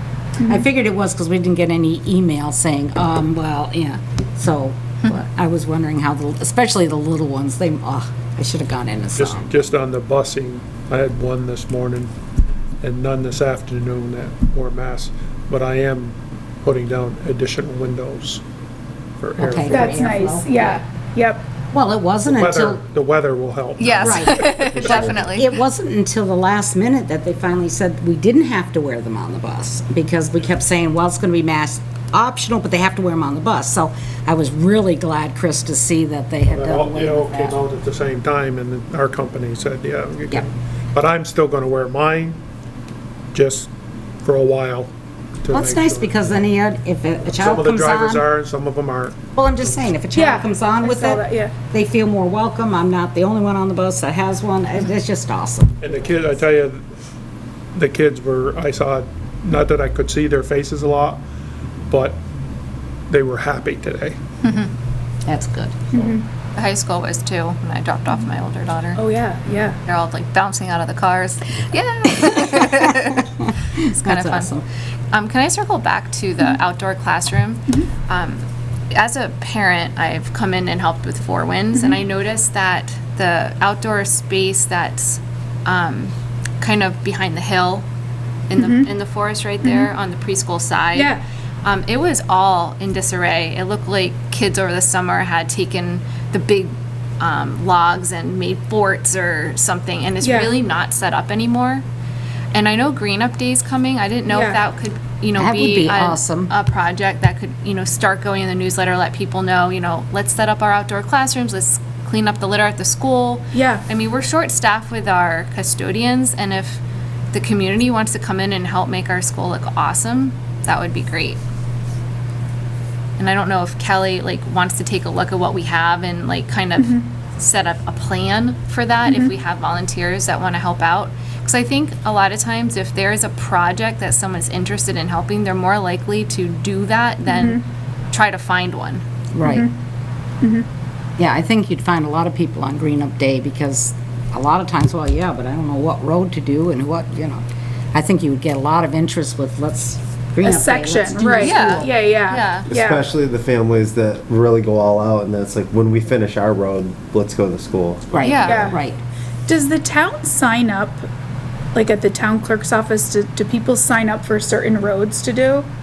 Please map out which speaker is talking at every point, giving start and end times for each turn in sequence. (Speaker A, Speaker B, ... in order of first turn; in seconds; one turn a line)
Speaker A: 0.4-0.7
Speaker B: 0.4-9.5
Speaker C: 9.2-12.1
Speaker C: 12.8-18.4
Speaker C: 19.2-19.9
Speaker B: 19.4-20.8
Speaker A: 19.7-21.4
Speaker B: 21.7-22.8
Speaker C: 22.3-25.1
Speaker D: 23.8-25.6
Speaker B: 23.9-37.6
Speaker C: 36.5-42.4
Speaker C: 43.3-43.7
Speaker C: 44.2-44.9
Speaker C: 45.4-46.1
Speaker B: 45.5-48.2
Speaker C: 47.4-49.2
Speaker B: 49.4-55.8
Speaker A: 50.1-51.5
Speaker C: 55.8-56.8
Speaker C: 57.7-61.2
Speaker C: 61.9-62.2
Speaker C: 63.1-64.2
Speaker B: 65.2-66.1
Speaker A: 65.9-66.2
Speaker D: 66.5-69.0
Speaker A: 69.0-69.8
Speaker D: 69.8-87.8
Speaker B: 72.2-74.6
Speaker A: 81.7-82.0
Speaker D: 88.5-101.8
Speaker A: 88.6-88.9
Speaker A: 89.6-89.9
Speaker A: 91.0-91.2
Speaker A: 100.2-100.5
Speaker D: 102.5-116.8
Speaker A: 104.3-104.6
Speaker B: 105.4-106.5
Speaker A: 113.5-113.8
Speaker D: 117.3-121.4
Speaker D: 123.2-139.0
Speaker A: 126.8-127.1
Speaker A: 129.1-129.3
Speaker A: 137.3-137.6
Speaker B: 139.3-139.7
Speaker A: 139.4-139.7
Speaker A: 140.4-140.7
Speaker B: 141.2-151.9
Speaker A: 150.4-153.0
Speaker D: 151.4-152.7
Speaker E: 152.7-158.4
Speaker B: 158.1-159.0
Speaker D: 158.2-158.7
Speaker A: 158.4-158.8
Speaker A: 159.5-161.1
Speaker A: 161.8-165.7